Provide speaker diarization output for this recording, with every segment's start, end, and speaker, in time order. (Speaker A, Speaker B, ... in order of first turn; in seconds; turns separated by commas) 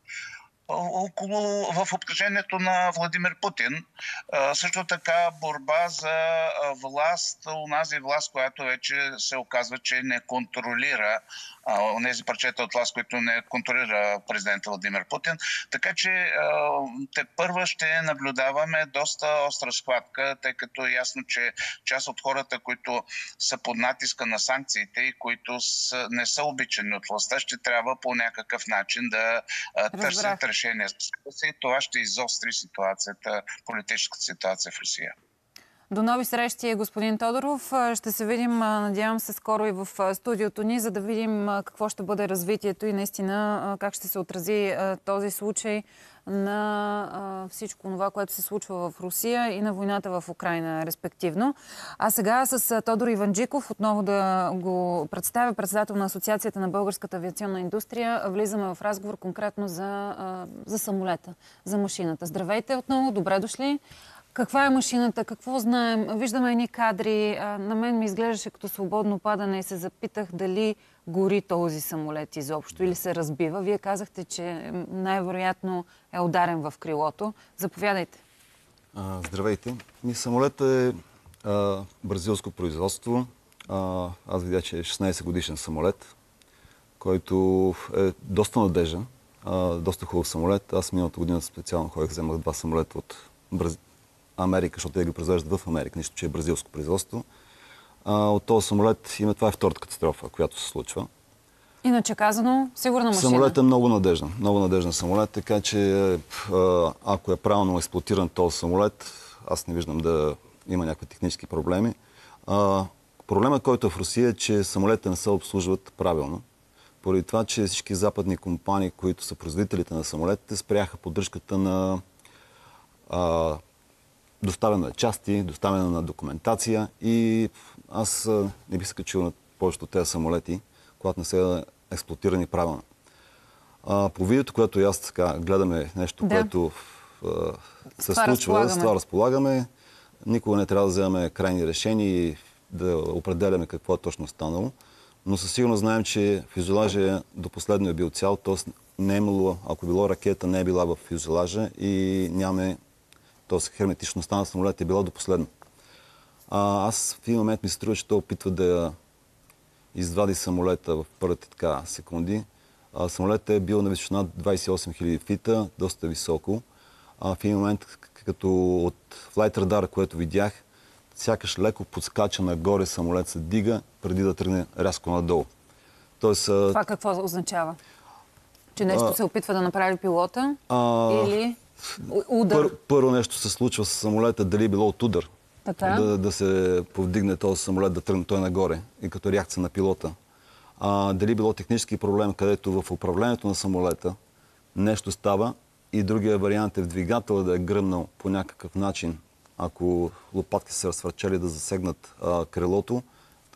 Speaker A: 0.7-35.1, Speaker B: 29.9-30.4, Speaker B: 35.9-63.8, Speaker B: 64.3-78.2, Speaker C: 78.9-86.1, Speaker C: 87.0-93.8, Speaker C: 94.4-97.2, Speaker C: 98.0-101.1, Speaker B: 101.8-103.6, Speaker C: 103.1-111.9, Speaker C: 112.5-116.4, Speaker C: 117.0-122.0, Speaker C: 123.1-123.6, Speaker C: 124.4-132.8, Speaker C: 133.8-139.7, Speaker B: 136.2-136.5, Speaker B: 138.0-138.9, Speaker C: 140.2-144.7, Speaker C: 145.2-152.8, Speaker C: 153.5-155.5, Speaker C: 156.5-158.9, Speaker C: 159.9-166.6, Speaker C: 167.2-170.6, Speaker C: 171.1-175.5, Speaker C: 176.2-176.8, Speaker B: 176.7-177.8, Speaker B: 178.7-182.7, Speaker C: 178.8-179.2, Speaker C: 180.7-181.4, Speaker C: 182.0-185.3, Speaker B: 185.6-186.1, Speaker C: 185.8-190.1, Speaker C: 190.8-194.1, Speaker C: 194.7-203.0